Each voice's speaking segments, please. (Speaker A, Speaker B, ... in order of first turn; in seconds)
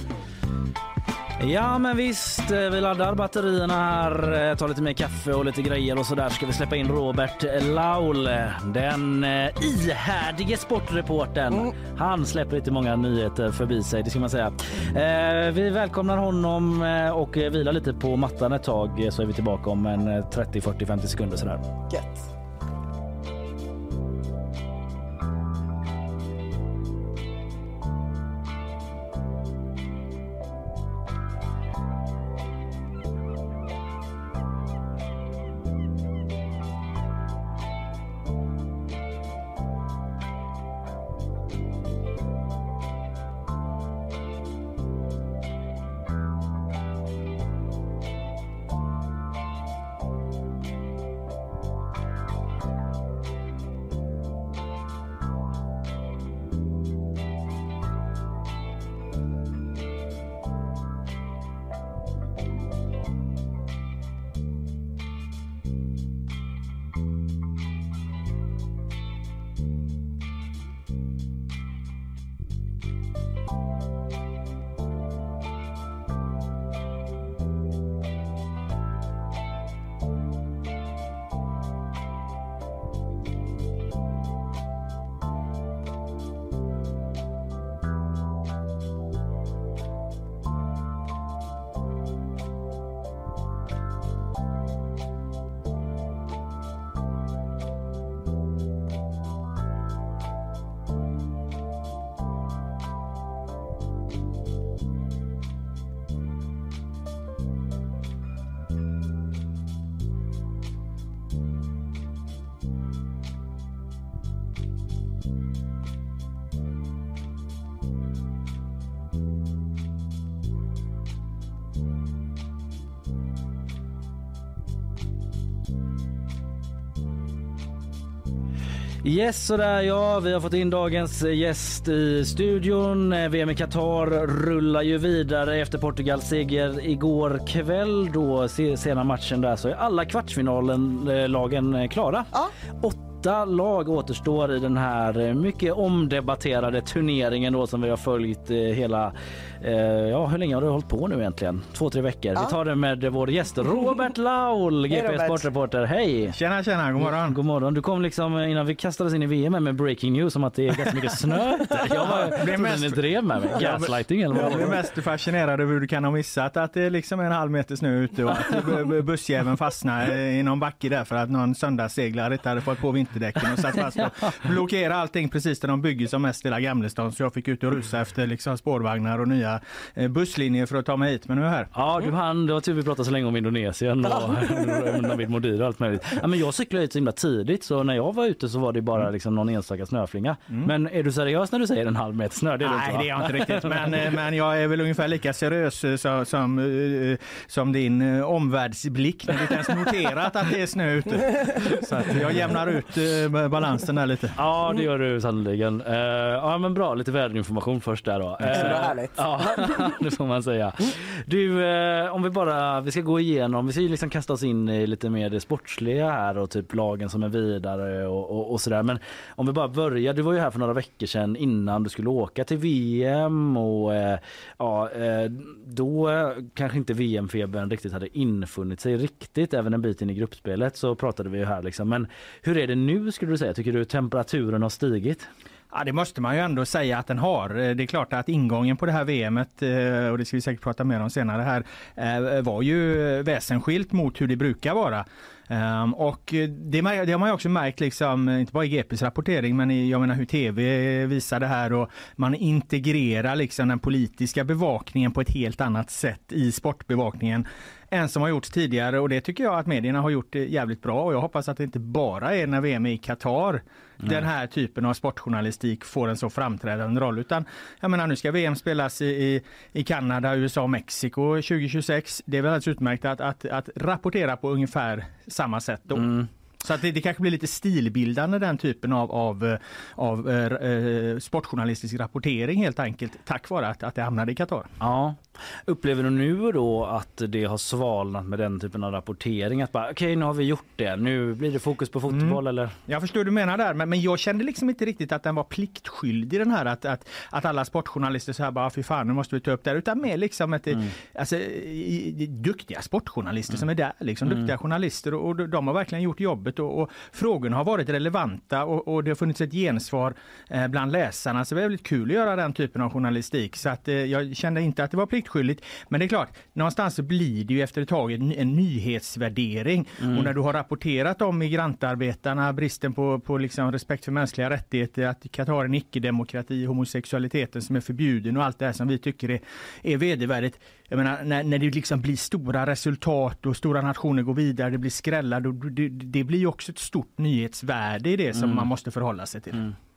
Speaker A: 1.4-21.7, 129.0-156.4, 157.0-164.8, 181.7-194.1, 204.4-235.3, 275.9-276.3, 284.8-292.8, 304.3-304.5, 320.0-320.3, 338.3-338.7
Speaker B: 21.9-22.3, 154.9-155.4, 161.6-162.2, 164.3-164.8, 184.1-185.0, 208.5-209.9
Speaker C: 156.3-157.4, 162.1-181.7, 192.6-204.4, 235.7-284.7, 292.1-339.7